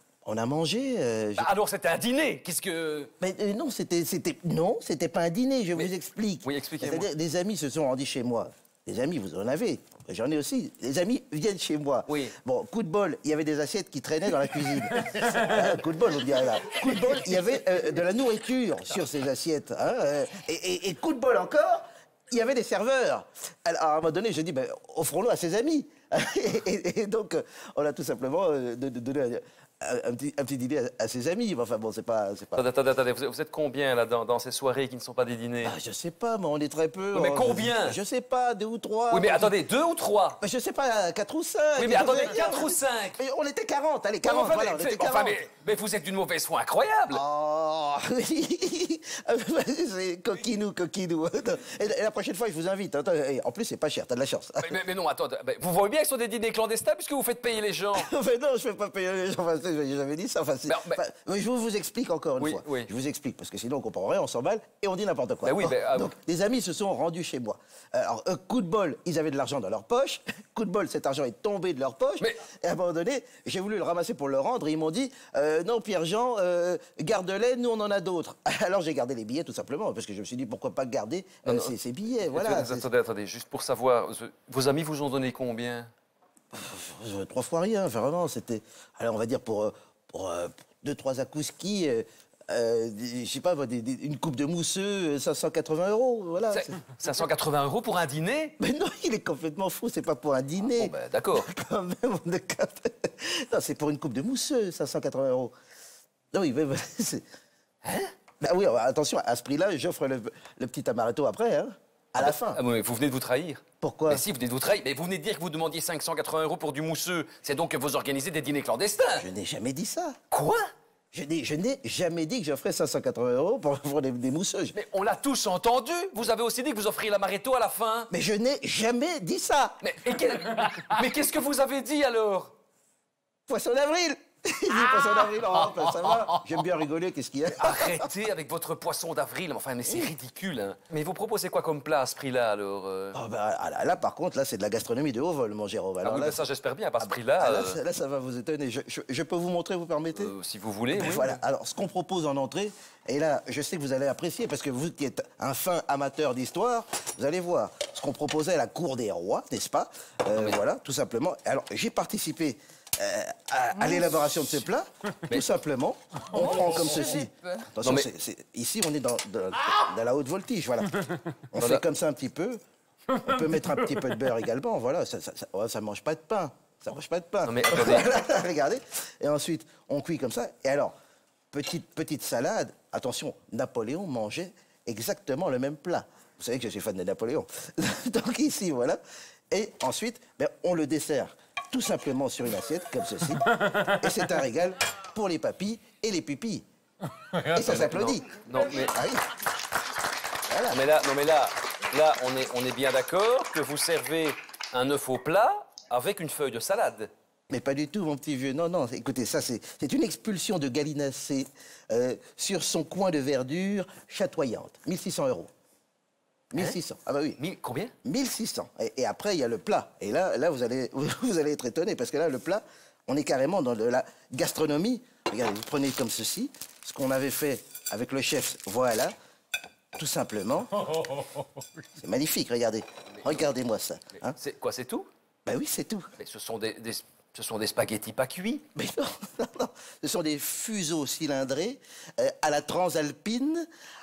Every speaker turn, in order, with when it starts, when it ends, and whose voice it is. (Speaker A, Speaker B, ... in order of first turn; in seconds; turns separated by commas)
Speaker A: 0.2-1.5, Speaker B: 1.4-3.1, Speaker A: 3.2-32.6, Speaker B: 6.4-7.1, Speaker B: 12.1-12.3, Speaker B: 32.5-35.7, Speaker A: 35.6-39.5, Speaker B: 37.1-38.0, Speaker B: 39.1-40.4, Speaker A: 40.4-45.4, Speaker B: 41.8-43.2, Speaker B: 44.2-47.2, Speaker A: 47.1-54.8, Speaker B: 54.6-58.1, Speaker A: 57.9-82.9, Speaker B: 60.6-61.0, Speaker B: 62.4-62.9, Speaker B: 65.4-66.1, Speaker B: 81.4-85.9, Speaker A: 86.5-96.8, Speaker B: 96.5-98.5, Speaker A: 98.6-105.5, Speaker B: 100.6-101.5, Speaker A: 106.3-107.2, Speaker B: 107.8-108.1, Speaker A: 108.4-112.6, Speaker B: 112.2-119.3, Speaker A: 113.8-114.2, Speaker A: 119.2-120.2, Speaker B: 120.3-120.7, Speaker A: 121.1-124.8, Speaker B: 124.7-128.1, Speaker A: 128.1-129.8, Speaker B: 129.8-132.5, Speaker A: 133.5-138.1, Speaker B: 137.5-143.2, Speaker A: 139.8-140.1, Speaker A: 143.1-146.4, Speaker B: 146.0-147.8, Speaker A: 147.0-150.3, Speaker B: 150.1-151.4, Speaker A: 150.9-172.6, Speaker B: 160.3-160.6, Speaker B: 167.8-168.1, Speaker B: 171.6-171.8, Speaker A: 173.1-180.9, Speaker B: 177.4-178.1, Speaker A: 181.5-189.0, Speaker A: 189.5-196.6, Speaker A: 197.4-198.3, Speaker B: 197.6-199.0, Speaker A: 198.8-199.3, Speaker A: 200.5-200.8, Speaker B: 200.7-207.1, Speaker A: 207.5-215.5, Speaker A: 216.5-217.4, Speaker B: 217.4-217.9, Speaker A: 218.0-229.1, Speaker A: 229.9-231.2, Speaker A: 232.0-234.3, Speaker B: 234.2-235.1, Speaker A: 235.4-236.1, Speaker B: 236.2-238.6, Speaker A: 238.7-243.7